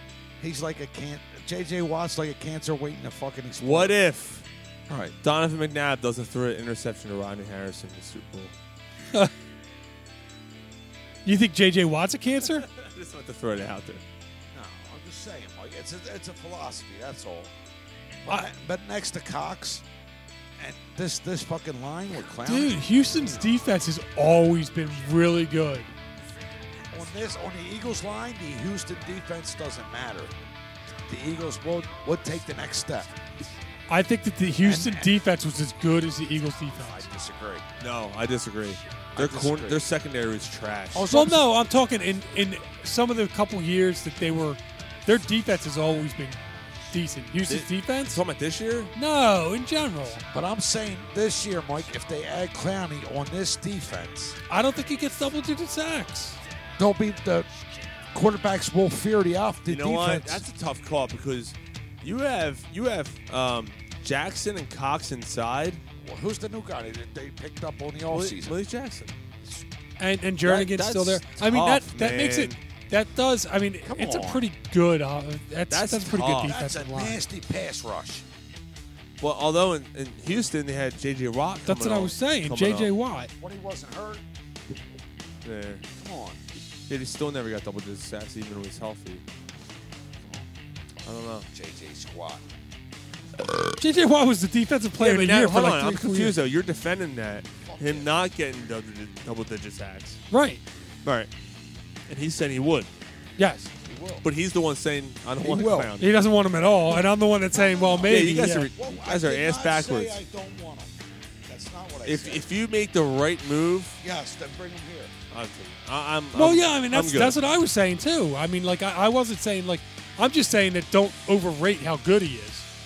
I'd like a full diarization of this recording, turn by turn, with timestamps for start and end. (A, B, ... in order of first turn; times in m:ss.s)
0:00.4-0:04.0 A
0:03.6-0:04.4 B
0:04.9-0:05.2 A
0:05.2-0:08.5 B
0:11.2-0:12.7 C
0:12.7-0:14.0 B
0:14.5-0:17.5 A
0:18.2-0:19.8 A
0:20.6-0:23.5 A
0:22.5-0:25.9 C
0:26.9-0:30.3 A
0:31.1-0:33.1 A
0:33.9-0:37.1 C
0:34.6-0:35.1 A
0:36.6-0:37.7 A
0:37.8-0:41.0 B
0:39.2-0:39.8 A
0:40.9-0:41.5 A
0:41.1-0:46.4 C
0:46.9-0:48.2 C
0:47.5-0:48.9 B
0:49.0-0:50.2 C
0:50.3-0:54.4 A
0:54.5-0:56.4 C
0:56.8-0:57.5 A
0:58.1-1:00.4 A
0:59.7-1:05.8 B
1:06.0-1:08.6 A
1:08.1-1:09.2 B
1:10.0-1:17.2 C
1:10.4-1:12.6 B
1:13.8-1:14.5 A
1:15.7-1:16.6 B
1:16.4-1:18.2 A
1:19.2-1:22.9 B
1:21.7-1:23.3 C
1:23.4-1:24.2 A
1:25.4-1:25.8 B
1:25.9-1:26.4 A
1:26.9-1:29.2 B
1:30.2-1:30.5 A
1:31.0-1:31.5 B
1:31.5-1:32.4 A
1:33.8-1:36.4 C
1:35.0-1:40.2 B
1:37.6-1:38.1 A
1:40.3-1:40.6 C
1:41.0-1:41.3 B
1:42.1-1:42.9 B
1:43.4-1:43.7 C
1:43.8-1:44.2 A
1:44.2-1:46.2 B
1:45.4-1:45.9 A
1:46.0-1:48.7 C
1:47.5-1:52.5 A
1:48.1-1:50.2 B
1:52.0-1:54.0 B
1:54.0-1:55.1 A
1:55.3-1:57.4 B
1:56.4-2:02.7 C